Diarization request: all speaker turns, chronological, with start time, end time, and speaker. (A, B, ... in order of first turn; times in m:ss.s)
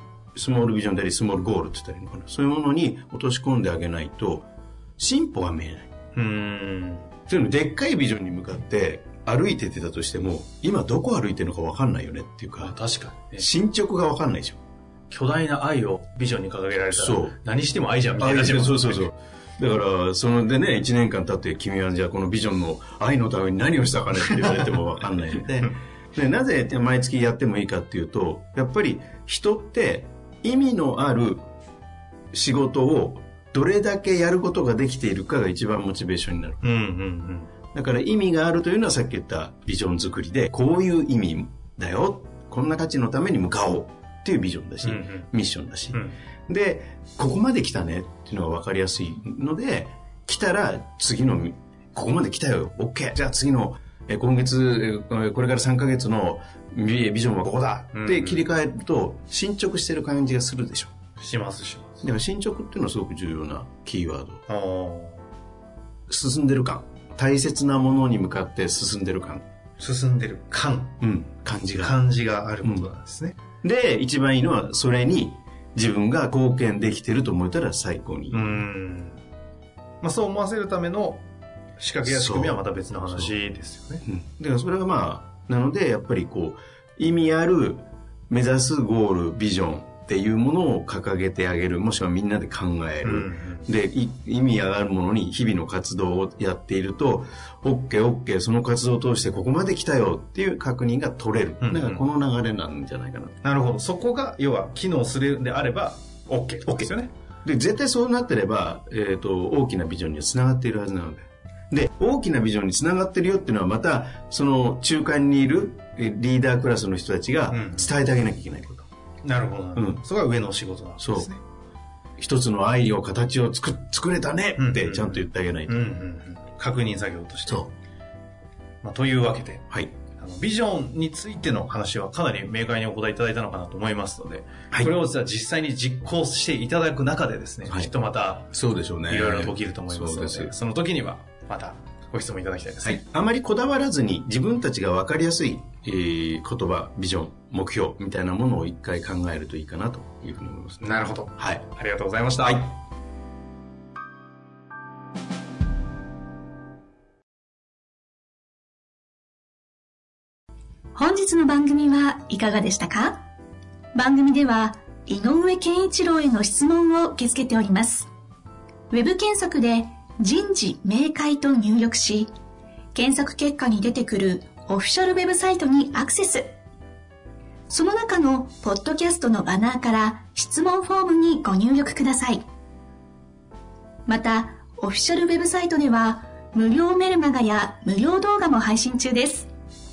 0:00.4-0:04.4 A
0:05.0-0:05.9 A
0:06.2-0:07.1 B
0:07.3-0:12.8 A
0:12.6-0:13.5 B
0:13.4-0:14.6 A
0:15.1-0:19.1 B
0:16.9-0:17.4 A
0:18.2-0:31.4 A
0:32.3-0:36.6 A
0:36.6-0:37.5 B
0:37.7-1:00.9 A
0:44.8-0:45.3 B
0:57.9-0:58.5 B
1:01.2-1:02.0 B
1:02.0-1:04.4 A
1:04.5-1:05.3 B
1:06.1-1:09.4 A
1:09.8-1:11.0 B
1:11.0-1:12.0 A
1:11.8-1:13.4 B
1:12.6-1:12.9 A
1:13.6-1:18.6 A
1:18.3-1:19.2 B
1:20.0-1:21.2 B
1:21.8-1:24.0 B
1:22.0-1:22.6 A
1:24.0-1:43.4 A
1:33.0-1:33.7 B
1:41.6-1:42.0 B
1:43.4-1:47.1 B
1:47.4-1:58.9 A
1:57.5-1:57.9 B
1:59.2-2:01.4 B
1:59.8-2:00.0 A
2:01.0-2:01.3 A
2:02.2-2:05.8 A
2:04.6-2:07.7 B
2:08.8-2:18.5 B
2:17.7-2:17.9 A
2:18.5-2:20.5 A
2:19.1-2:23.0 B
2:22.8-2:31.6 A
2:30.8-2:32.7 B
2:32.4-2:32.7 A
2:41.0-2:43.2 C
2:44.0-2:48.1 C
2:48.9-2:52.3 C
2:52.9-2:56.6 C
2:57.7-3:02.4 C
3:04.1-3:09.5 C